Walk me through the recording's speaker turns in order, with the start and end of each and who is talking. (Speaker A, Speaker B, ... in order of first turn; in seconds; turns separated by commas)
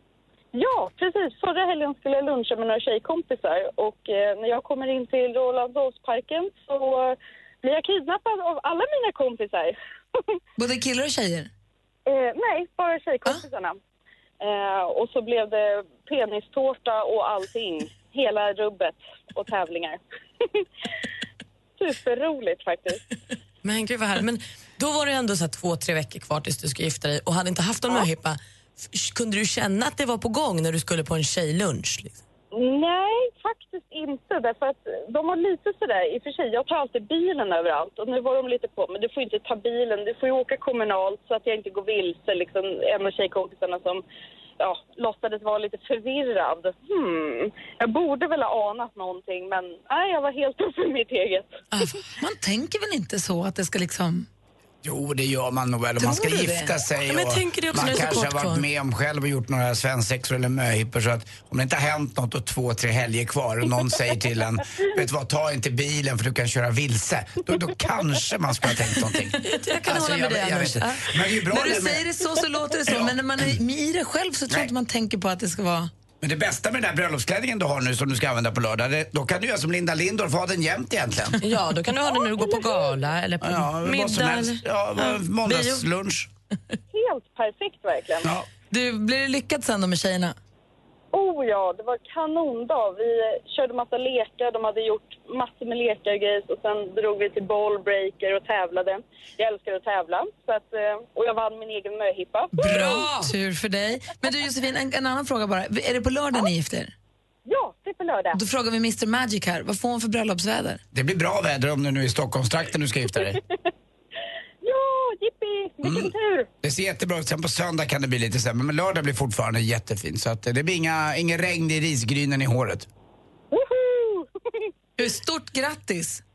Speaker A: 0.5-9.8, Speaker B: 10.6-11.5, Speaker A: 12.1-13.8, Speaker A: 14.4-20.0, Speaker A: 21.8-23.0, Speaker C: 23.6-32.2, Speaker A: 32.5-44.0, Speaker A: 44.6-51.5, Speaker B: 52.2-54.3, Speaker D: 54.8-72.0, Speaker B: 56.0-56.7, Speaker C: 57.0-58.6, Speaker C: 69.3-71.0, Speaker B: 70.0-70.6, Speaker B: 71.5-75.9, Speaker D: 72.9-73.2, Speaker D: 76.2-81.4, Speaker C: 81.4-85.8, Speaker A: 82.1-83.0, Speaker D: 83.4-86.3, Speaker A: 86.9-88.3, Speaker D: 88.2-88.5, Speaker B: 88.7-90.3, Speaker A: 91.1-102.9, Speaker C: 102.6-103.3, Speaker B: 102.6-106.9, Speaker A: 107.5-108.4, Speaker B: 108.3-110.8, Speaker D: 110.9-113.4, Speaker A: 114.6-116.5, Speaker D: 115.8-122.9, Speaker A: 123.5-124.2, Speaker B: 125.0-126.2